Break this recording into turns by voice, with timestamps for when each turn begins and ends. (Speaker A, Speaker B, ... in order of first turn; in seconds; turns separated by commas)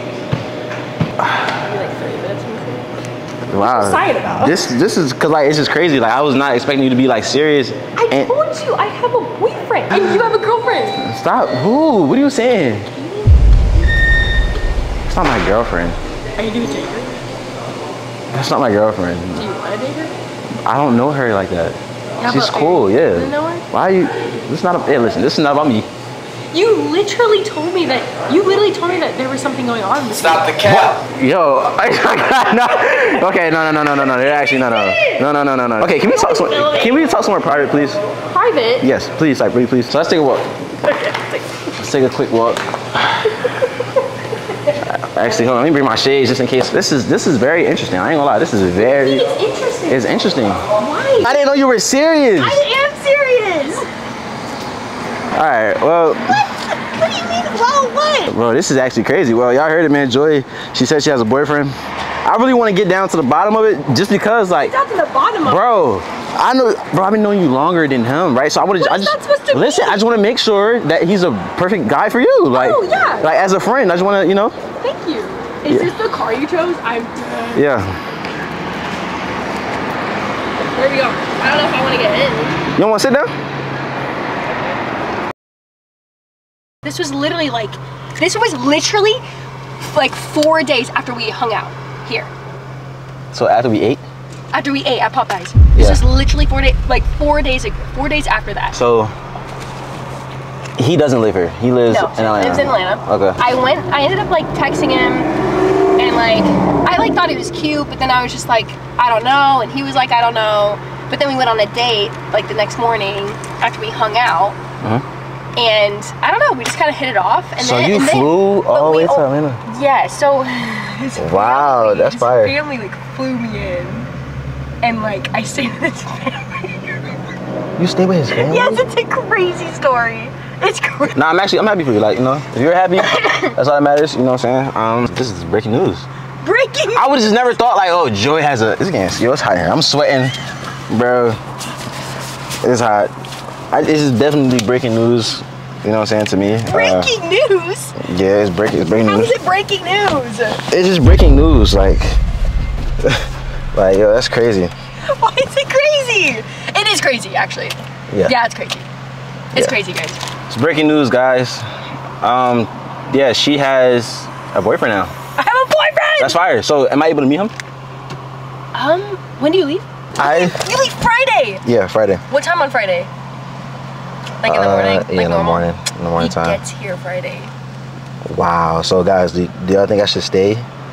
Speaker A: 1.2-1.5, Speaker B: 1.6-2.9, Speaker A: 3.5-8.3, Speaker B: 3.6-4.6, Speaker B: 8.0-11.0, Speaker A: 11.0-12.9, Speaker B: 12.9-13.3, Speaker A: 15.1-16.0, Speaker B: 16.4-17.1, Speaker A: 18.3-19.4, Speaker B: 19.4-20.1, Speaker A: 20.6-25.9, Speaker B: 22.2-23.6, Speaker B: 26.5-30.8, Speaker A: 30.6-38.0, Speaker B: 34.1-35.2, Speaker B: 36.0-37.0, Speaker B: 38.2-38.9, Speaker A: 38.8-40.5, Speaker B: 40.8-41.7, Speaker A: 41.8-43.4, Speaker B: 43.4-44.0, Speaker A: 44.8-49.3, Speaker B: 48.8-50.0, Speaker A: 49.9-50.6, Speaker B: 50.7-51.3, Speaker A: 51.2-52.6, Speaker B: 52.4-53.9, Speaker A: 55.3-56.4, Speaker B: 56.3-58.3, Speaker A: 58.3-64.7, Speaker B: 64.6-65.7, Speaker A: 65.4-74.5, Speaker B: 68.7-70.0, Speaker B: 72.5-73.3, Speaker B: 74.8-77.6, Speaker A: 75.7-75.9, Speaker A: 77.5-78.0, Speaker B: 80.6-82.6, Speaker A: 82.7-83.3, Speaker B: 86.8-89.2, Speaker B: 89.8-92.3, Speaker A: 93.3-94.0, Speaker B: 94.5-98.8, Speaker A: 95.7-96.0, Speaker A: 98.7-99.1, Speaker A: 100.8-103.4, Speaker B: 101.9-105.3, Speaker B: 106.0-114.6, Speaker B: 115.5-124.1, Speaker A: 117.6-119.6, Speaker A: 121.2-122.5, Speaker B: 124.8-127.2, Speaker A: 127.8-128.8, Speaker B: 128.3-131.2, Speaker A: 131.1-136.1, Speaker B: 133.1-133.5, Speaker B: 136.4-137.3, Speaker A: 136.9-140.3, Speaker A: 140.9-141.4, Speaker A: 142.6-143.1, Speaker A: 143.7-147.1, Speaker B: 146.7-148.0, Speaker A: 148.0-149.3, Speaker B: 149.0-150.6, Speaker A: 150.7-152.2, Speaker A: 153.0-154.7, Speaker B: 155.1-158.8, Speaker B: 159.5-160.2, Speaker A: 160.5-161.6, Speaker A: 162.2-165.1, Speaker B: 165.3-166.4, Speaker A: 166.2-167.5, Speaker B: 168.7-171.6, Speaker A: 170.2-170.6, Speaker A: 171.6-172.2, Speaker B: 172.3-173.1, Speaker B: 174.4-175.6, Speaker A: 174.4-176.6, Speaker B: 176.2-177.5, Speaker A: 178.2-180.7